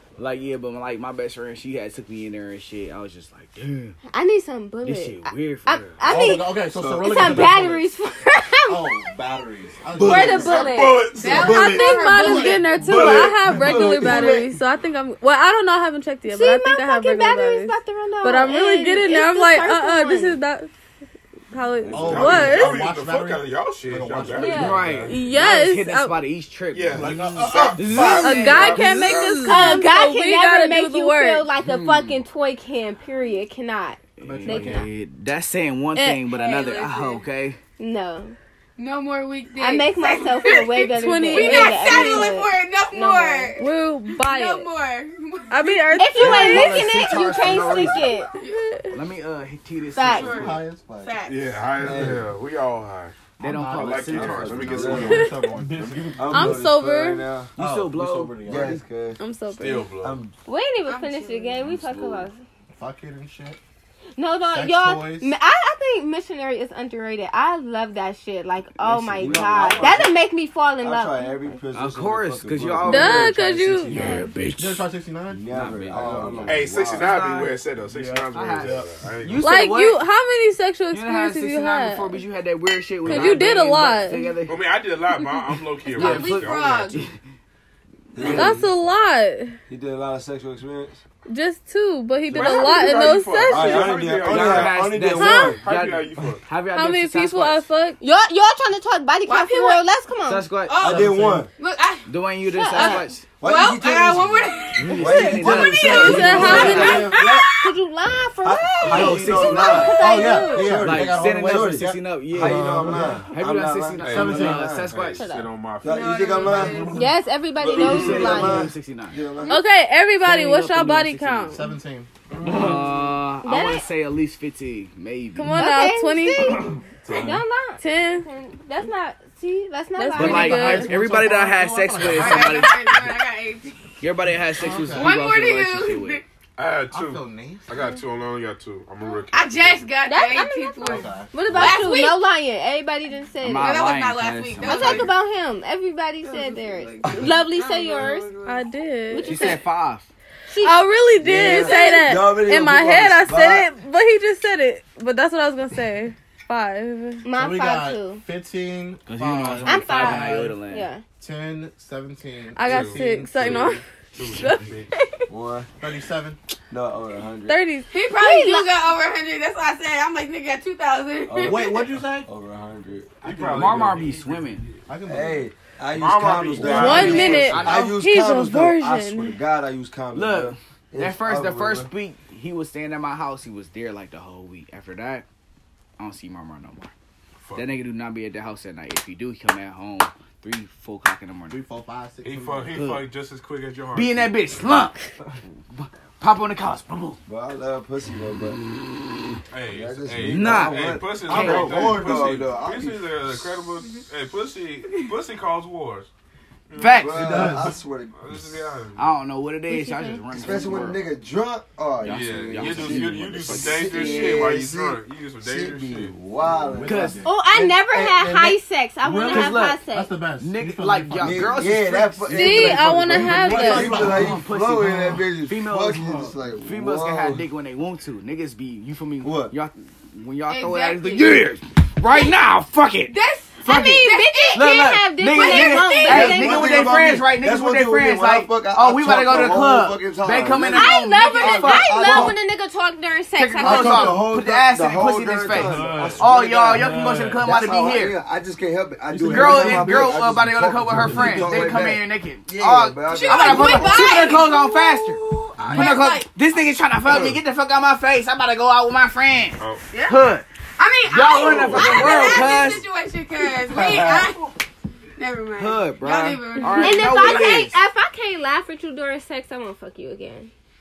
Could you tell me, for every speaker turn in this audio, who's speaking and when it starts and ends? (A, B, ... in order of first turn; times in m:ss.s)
0:00.2-0:04.0 A
0:04.1-0:09.1 B
0:04.8-0:05.9 A
0:06.0-0:07.9 C
0:06.7-0:07.6 D
0:08.7-0:10.8 C
0:10.0-0:10.5 D
0:10.0-0:12.0 E
0:10.0-0:11.1 B
0:11.2-0:12.9 F
0:11.3-0:11.9 D
0:11.3-0:20.7 G
0:12.0-0:13.2 B
0:12.8-0:14.6 D
0:12.9-0:13.4 E
0:13.6-0:13.9 C
0:16.3-0:20.4 B
0:21.5-0:22.8 G
0:21.8-0:25.2 E
0:21.9-0:25.0 C
0:24.4-0:25.0 B
0:24.5-0:28.4 A
0:25.0-0:26.2 G
0:26.7-0:29.9 E
0:26.9-0:28.0 C
0:27.5-0:27.9 D
0:27.8-0:29.5 F
0:28.0-0:31.5 G
0:29.4-0:34.9 B
0:31.6-0:32.2 A
0:34.2-0:34.9 C
0:34.2-0:37.6 A
0:35.9-0:36.6 G
0:36.5-0:37.0 B
0:37.8-0:38.4 B
0:38.8-0:46.1 F
0:39.6-0:43.6 B
0:40.9-0:42.4 G
0:43.6-0:44.7 G
0:45.5-0:46.6 G
0:46.0-0:48.4 B
0:46.2-0:48.0 C
0:46.2-0:48.1 A
0:48.3-0:48.8 F
0:48.5-0:49.0 G
0:48.9-0:50.6 A
0:49.9-0:50.5 B
0:50.1-0:51.4 F
0:50.3-0:52.2 C
0:51.3-0:53.2 E
0:51.8-0:52.3 D
0:53.4-0:54.8 A
0:53.4-0:56.7 C
0:53.7-0:55.3 E
0:54.1-0:55.3 D
0:55.0-0:55.6 G
0:56.1-0:57.5 D
0:56.2-0:57.2 G
0:57.6-0:58.8 C
0:57.6-0:58.8 A
0:58.5-0:59.2 D
0:59.2-1:00.0 G
0:59.5-1:00.2 E
1:00.0-1:00.3 D
1:00.5-1:02.4 B
1:00.9-1:01.6 F
1:01.6-1:02.3 E
1:02.7-1:03.6 C
1:04.2-1:11.6 B
1:04.5-1:05.3 C
1:08.8-1:10.1 A
1:09.2-1:10.0 D
1:09.2-1:10.1 C
1:10.8-1:13.3 D
1:11.7-1:14.9 A
1:12.8-1:14.1 G
1:13.9-1:16.8 C
1:15.3-1:17.1 D
1:15.5-1:20.0 A
1:16.4-1:19.7 E
1:18.6-1:18.8 C
1:19.4-1:22.2 G
1:20.9-1:24.6 A
1:23.0-1:24.3 G
1:24.4-1:27.0 E
1:25.9-1:27.1 F
1:25.9-1:27.2 A
1:28.1-1:28.6 D
1:28.2-1:28.6 A
1:28.3-1:29.6 G
1:29.7-1:31.0 D
1:31.3-1:34.0 G
1:32.3-1:36.4 E
1:33.4-1:35.6 D
1:34.0-1:37.7 A
1:35.1-1:35.6 G
1:36.7-1:38.0 G
1:38.0-1:40.5 B
1:39.3-1:39.8 F
1:40.3-1:40.8 A
1:40.7-1:42.1 F
1:40.8-1:41.5 C
1:40.8-1:41.5 D
1:42.1-1:43.2 A
1:42.5-1:43.1 B
1:42.7-1:47.7 F
1:43.4-1:47.1 D
1:44.8-1:47.0 A
1:45.8-1:47.2 G
1:46.0-1:47.5 C
1:46.4-1:50.6 B
1:48.4-1:54.9 D
1:48.8-1:50.0 A
1:49.0-1:53.2 C
1:49.8-1:50.6 G
1:50.8-1:55.2 A
1:54.0-1:56.7 E
1:54.0-1:54.9 C
1:55.2-1:55.5 B
1:55.8-1:56.9 D
1:55.9-1:57.0 F
1:56.4-1:57.1 C
1:56.9-1:58.7 B
1:57.6-1:58.4 E
1:57.7-1:59.2 A
1:57.7-1:59.6 D
1:59.5-2:01.7 G
2:00.2-2:01.6 A
2:01.5-2:02.8 C
2:02.3-2:02.9 D
2:02.4-2:05.6 A
2:03.4-2:03.9 B
2:05.4-2:06.6 G
2:05.5-2:10.8 B
2:07.0-2:07.4 C
2:07.8-2:08.3 G
2:10.0-2:11.0 G
2:10.1-2:12.9 A
2:10.6-2:13.0 C
2:12.0-2:13.8 F
2:14.0-2:16.2 A
2:14.5-2:15.1 C
2:15.0-2:16.2 F
2:16.6-2:19.9 E
2:16.9-2:17.8 C
2:19.2-2:22.2 F
2:20.0-2:23.8 B
2:20.8-2:21.6 C
2:23.4-2:25.1 A
2:23.6-2:25.1 F
2:24.6-2:28.4 B
2:26.2-2:28.7 F
2:27.0-2:27.3 D
2:28.4-2:29.6 G
2:29.1-2:29.6 B
2:29.2-2:30.1 A
2:30.5-2:30.9 B
2:30.6-2:37.3 G
2:31.2-2:33.7 D
2:31.5-2:32.0 B
2:31.7-2:32.1 F
2:37.2-2:38.2 B
2:37.3-2:40.6 C
2:39.1-2:40.9 A
2:39.7-2:41.0 B
2:41.2-2:43.8 C
2:42.6-2:44.7 G
2:42.6-2:44.9 E
2:45.0-2:45.2 B
2:45.3-2:45.7 D
2:45.8-2:46.4 C
2:46.7-2:47.6 D
2:47.5-2:47.9 G
2:47.9-2:51.9 F
2:48.2-2:48.7 B
2:51.3-2:53.9 D
2:51.4-2:52.3 C
2:53.2-2:54.8 E
2:53.5-2:54.7 A
2:54.9-2:55.5 C
2:55.1-3:01.9 D
2:55.9-2:57.8 E
2:56.6-2:59.4 G
2:56.8-2:58.0 A
3:00.1-3:05.2 A
3:06.0-3:06.9 A
3:07.4-3:07.7 E
3:07.6-3:11.6 A
3:11.5-3:12.8 C
3:12.2-3:14.8 E
3:12.7-3:13.1 A
3:14.0-3:15.1 A
3:15.7-3:17.2 A
3:17.3-3:18.6 D
3:19.5-3:26.1 E
3:19.7-3:23.1 D
3:20.2-3:21.9 A
3:21.3-3:22.3 C
3:26.7-3:27.5 E
3:26.8-3:27.6 A
3:27.0-3:28.5 D
3:27.2-3:27.7 C
3:28.1-3:29.1 E
3:29.0-3:31.0 A
3:29.7-3:30.2 B
3:30.3-3:38.6 D
3:32.0-3:34.0 A
3:32.1-3:36.2 E
3:33.9-3:34.5 B
3:36.5-3:37.4 C
3:36.8-3:37.3 A
3:37.2-3:40.1 B
3:39.0-3:41.9 C
3:39.2-3:39.8 A
3:40.4-4:02.4 A
3:41.2-3:47.5 D
3:42.3-3:44.0 G
3:43.1-3:45.2 C
3:49.2-3:49.5 D
3:50.5-3:51.3 F
3:53.1-3:54.8 F
3:53.6-3:57.0 B
3:55.3-3:56.2 F
3:56.0-4:02.4 D
4:00.7-4:04.2 B
4:03.4-4:08.2 A
4:03.6-4:14.4 D
4:05.6-4:07.4 C
4:05.7-4:06.2 E
4:09.1-4:11.9 C
4:09.2-4:15.2 A
4:13.1-4:16.3 F
4:15.6-4:16.0 C
4:15.7-4:20.5 A
4:19.6-4:19.8 E
4:19.9-4:20.2 F
4:20.8-4:24.5 F
4:21.1-4:22.8 A
4:21.6-4:22.0 E
4:21.8-4:22.4 B
4:23.8-4:24.3 C
4:25.2-4:27.6 F
4:25.6-4:27.8 A
4:26.7-4:30.5 B